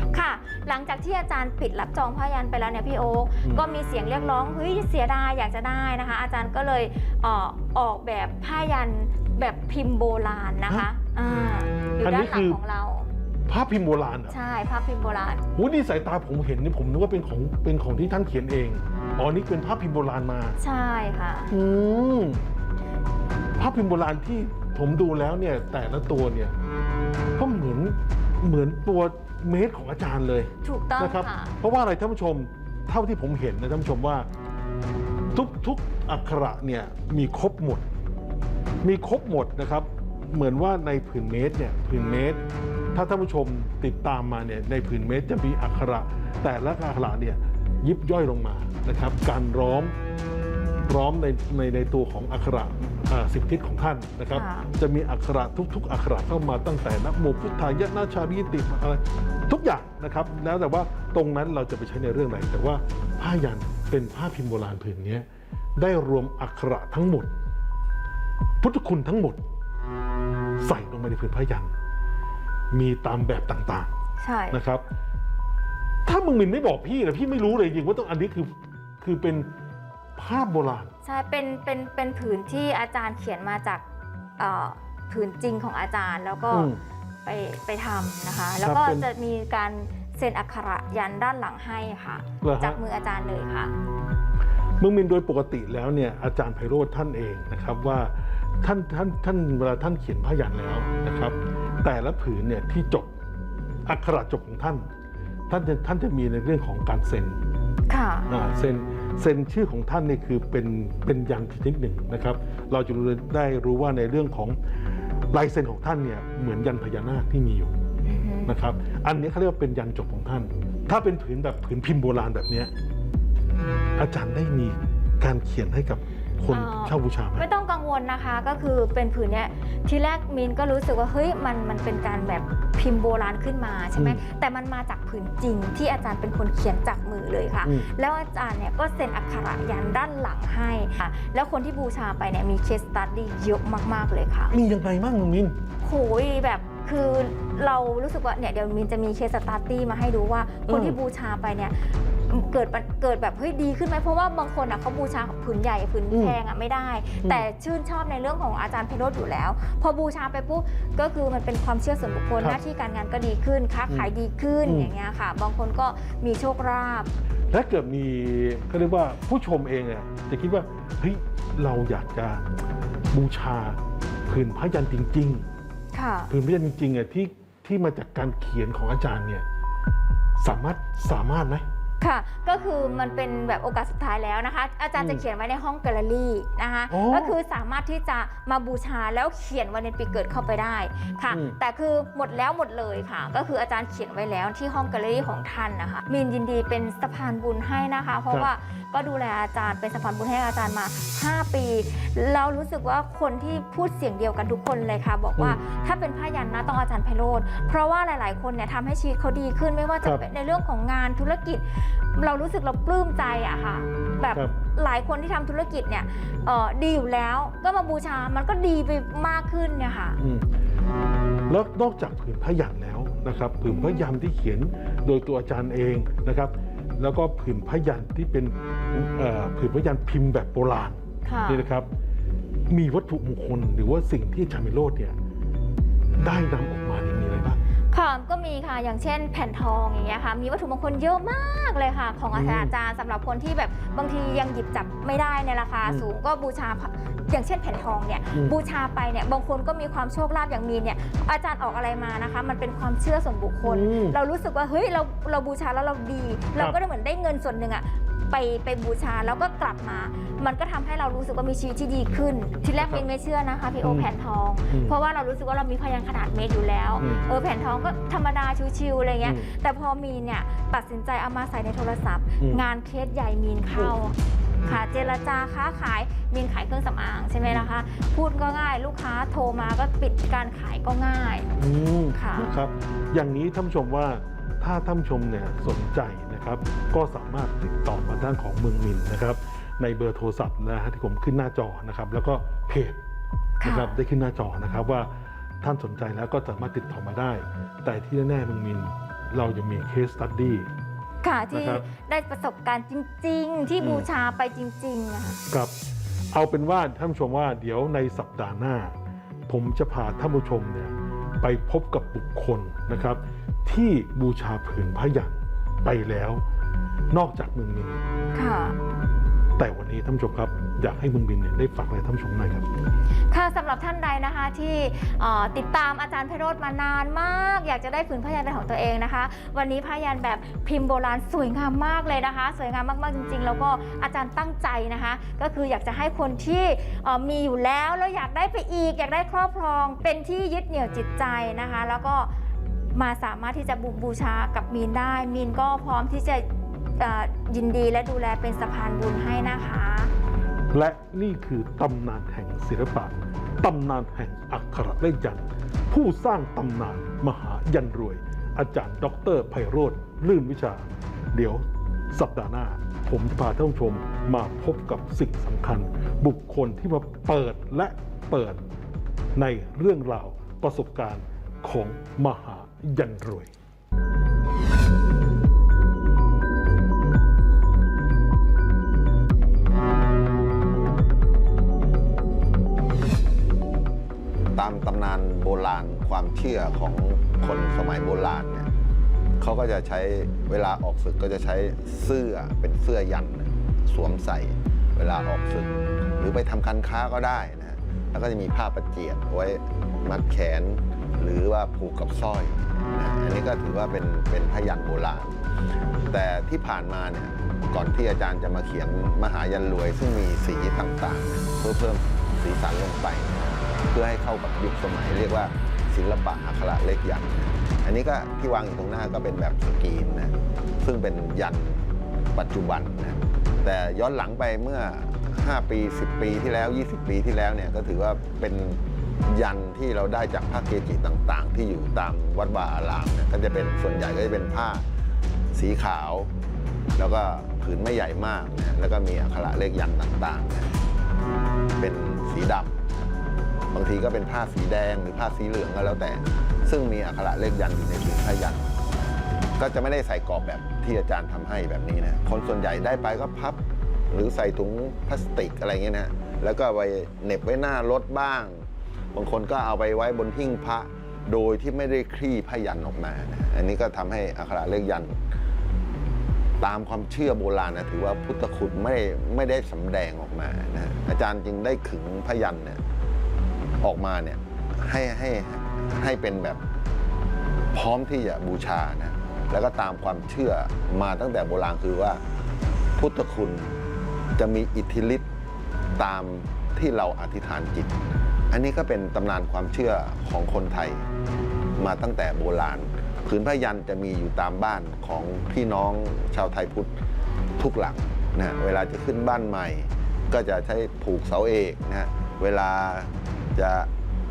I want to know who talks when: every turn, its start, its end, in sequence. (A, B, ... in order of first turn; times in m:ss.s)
0:00.1-0:13.1 A
0:12.0-0:12.6 B
0:13.5-0:14.3 B
0:14.3-0:15.4 A
0:15.5-0:20.6 B
0:20.6-0:21.6 A
0:21.5-0:22.4 B
0:23.6-0:26.5 B
0:27.4-0:34.3 B
0:30.6-0:31.5 A
0:35.3-0:37.8 B
0:38.8-0:49.9 B
0:50.9-1:05.2 B
0:54.3-0:54.7 A
1:05.8-1:07.3 B
1:08.6-1:09.4 B
1:10.6-1:11.7 B
1:12.7-1:13.9 B
1:14.2-1:14.6 A
1:14.5-1:14.8 B
1:16.0-1:19.5 B
1:20.2-1:20.9 B
1:21.0-1:23.8 A
1:24.4-1:26.7 A
1:26.5-1:26.8 B
1:27.2-1:33.7 A
1:28.6-1:29.0 B
1:32.4-1:32.8 B
1:34.8-1:43.1 B
1:43.8-1:44.9 B
1:45.5-1:47.4 B
1:47.9-1:48.3 A
1:48.3-1:54.6 B
1:55.3-1:57.8 B
1:58.0-1:58.6 A
1:58.4-2:02.7 B
2:04.0-2:07.5 B
2:06.5-2:24.5 A
2:14.0-2:14.2 B
2:17.6-2:17.9 B
2:24.5-2:25.6 B
2:25.8-2:47.1 A
2:30.7-2:31.0 B
2:36.1-2:36.4 B
2:44.6-2:44.9 B
2:47.5-2:52.4 B
2:53.1-2:55.5 B
2:55.9-2:56.3 A
2:56.3-2:59.4 B
3:00.4-3:01.6 B
3:02.0-3:40.2 A
3:05.0-3:05.2 B
3:06.9-3:07.4 B
3:11.3-3:11.6 B
3:40.2-3:40.4 B
3:41.5-3:51.9 B
3:43.7-3:44.1 A
3:51.2-3:51.7 A
3:52.7-3:55.2 B
3:56.2-3:57.6 B
3:57.9-4:41.5 A
4:02.3-4:02.7 B
4:05.8-4:06.1 B
4:13.6-4:14.2 B
4:22.8-4:23.0 B
4:23.8-4:24.1 B
4:24.7-4:25.0 B
4:27.0-4:27.2 B
4:29.2-4:29.5 B
4:34.6-4:35.0 B
4:41.6-4:53.0 B
4:42.1-4:42.5 A
4:53.6-4:54.0 A
4:53.6-5:00.7 B
5:01.2-5:05.4 A
5:01.5-5:01.8 B
5:03.8-5:04.1 B
5:06.3-5:08.9 B
5:09.5-5:16.4 B
5:17.1-5:18.0 B
5:18.3-5:18.8 A
5:19.6-5:22.6 B
5:23.3-5:42.3 A
5:42.9-5:46.4 A
5:47.0-5:50.1 A
5:50.7-6:08.6 B
6:09.4-6:13.5 B
6:24.5-6:28.7 C
6:29.4-6:45.3 C
6:46.1-7:01.8 C
7:02.3-7:14.8 C
7:15.5-7:16.3 C
7:17.0-7:20.8 C
7:21.8-7:22.8 C
7:23.7-7:28.7 C
7:29.6-7:33.6 C
7:34.1-7:45.1 C
7:46.6-7:52.8 C
7:53.8-7:56.6 C
7:57.7-8:02.2 C
8:03.0-8:03.7 C
8:04.4-8:05.2 C
8:06.0-8:07.9 C
8:08.5-8:11.0 C
8:11.8-8:16.9 C
8:17.6-8:23.9 C